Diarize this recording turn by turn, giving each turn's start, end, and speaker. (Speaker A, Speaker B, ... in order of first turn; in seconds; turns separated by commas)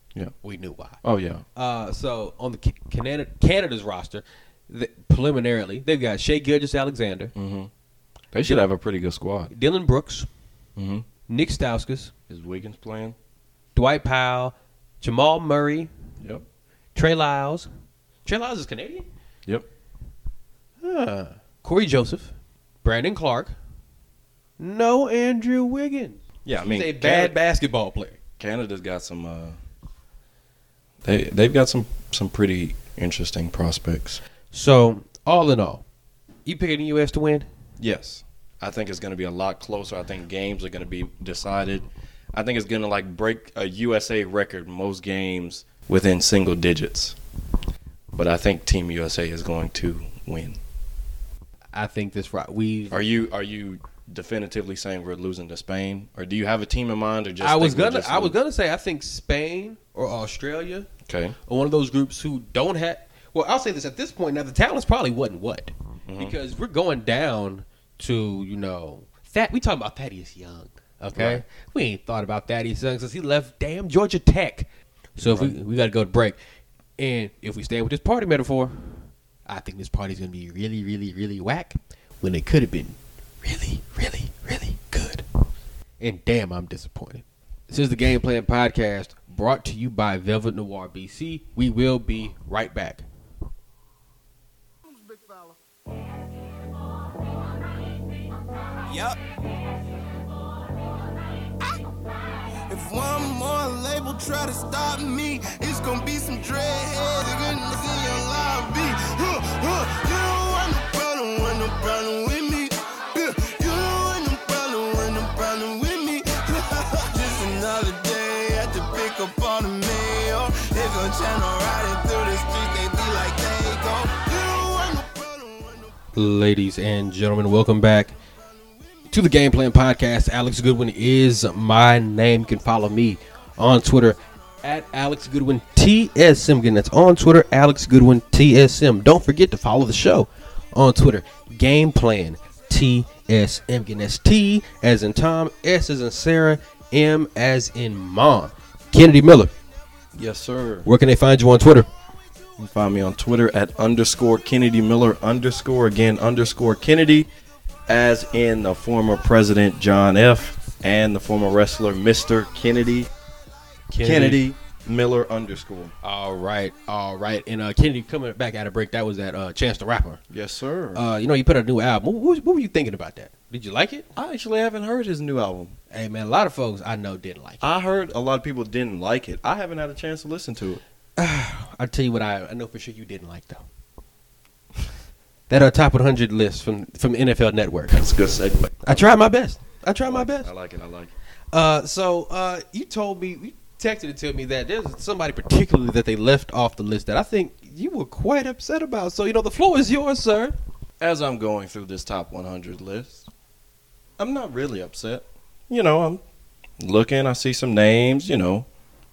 Speaker A: 0.4-1.0, Speaker B: 1.0-1.4, Speaker A: 1.5-7.3, Speaker B: 7.3-7.7, Speaker B: 8.3-9.5, Speaker A: 9.5-10.3, Speaker B: 10.8-11.0, Speaker A: 11.3-12.1, Speaker B: 12.3-13.2, Speaker A: 13.7-15.9, Speaker A: 16.9-17.7, Speaker A: 18.2-19.1, Speaker A: 20.8-22.3, Speaker A: 22.8-23.5, Speaker A: 24.6-28.2, Speaker B: 26.4-27.4, Speaker B: 28.4-29.6, Speaker B: 31.0-34.2, Speaker A: 34.5-35.8, Speaker A: 36.5-37.5, Speaker B: 37.8-47.1, Speaker B: 48.1-50.6, Speaker A: 51.7-53.0, Speaker B: 52.9-58.4, Speaker A: 57.4-60.9, Speaker B: 61.0-61.4, Speaker A: 61.5-76.4, Speaker B: 66.1-66.3, Speaker B: 71.1-71.4, Speaker B: 75.2-75.5, Speaker A: 77.0-85.2, Speaker A: 86.0-93.0, Speaker C: 95.0-95.5, Speaker C: 98.9-99.2, Speaker C: 102.7-125.9, Speaker A: 126.1-128.2, Speaker A: 129.1-149.5, Speaker B: 150.1-150.9, Speaker A: 150.8-151.9, Speaker B: 152.6-157.3, Speaker B: 157.9-163.1, Speaker A: 163.9-164.4, Speaker B: 164.0-165.9, Speaker A: 166.0-170.2, Speaker B: 170.3-171.0, Speaker A: 170.9-174.1, Speaker B: 174.1-175.8, Speaker A: 175.9-177.6, Speaker B: 177.6-180.8, Speaker A: 181.2-183.6, Speaker A: 185.5-188.1, Speaker B: 187.9-189.0, Speaker A: 188.8-190.5, Speaker B: 190.0-191.1, Speaker A: 191.5-200.6, Speaker B: 201.0-203.3, Speaker B: 204.2-206.2, Speaker B: 206.8-208.7